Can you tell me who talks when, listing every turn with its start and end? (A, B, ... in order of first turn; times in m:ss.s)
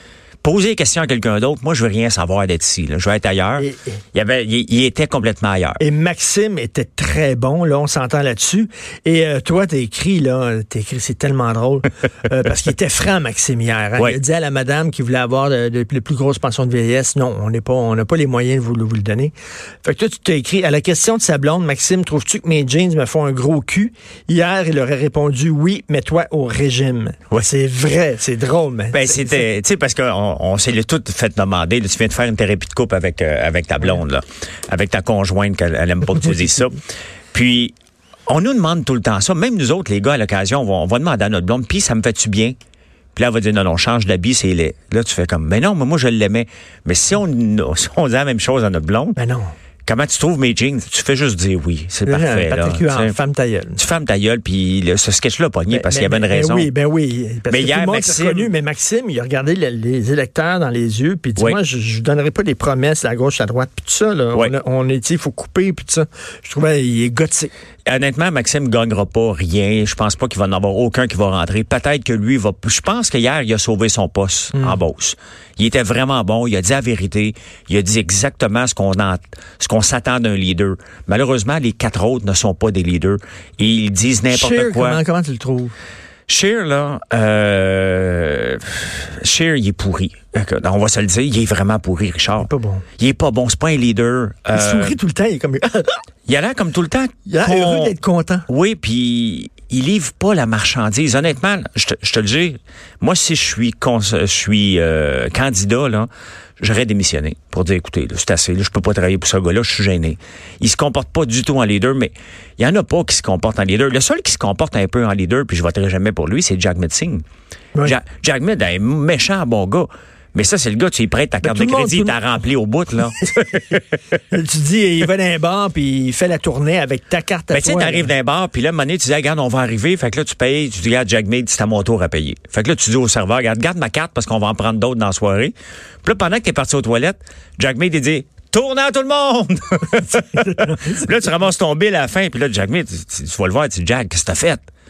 0:00.4-0:05.8 A
0:03.6-0:04.0 B
0:05.8-0:29.4 B
0:28.9-0:36.8 A
0:37.3-0:37.7 A
0:38.3-0:42.5 A
0:43.1-0:49.2 A
0:49.2-0:49.5 B
0:49.8-0:53.1 A
0:52.0-0:53.8 B
0:53.8-0:56.7 A
0:55.7-1:07.5 B
0:57.5-0:58.5 A
1:07.8-1:25.0 A
1:24.3-1:25.7 B
1:26.3-1:35.0 A
1:32.4-1:32.8 B
1:34.5-1:36.0 B
1:36.3-1:37.9 A
1:37.2-1:38.4 B
1:38.5-1:57.2 A
1:57.8-2:03.8 A
2:01.4-2:02.2 B
2:04.3-2:08.1 B
2:07.5-2:24.7 A
2:20.2-2:21.1 B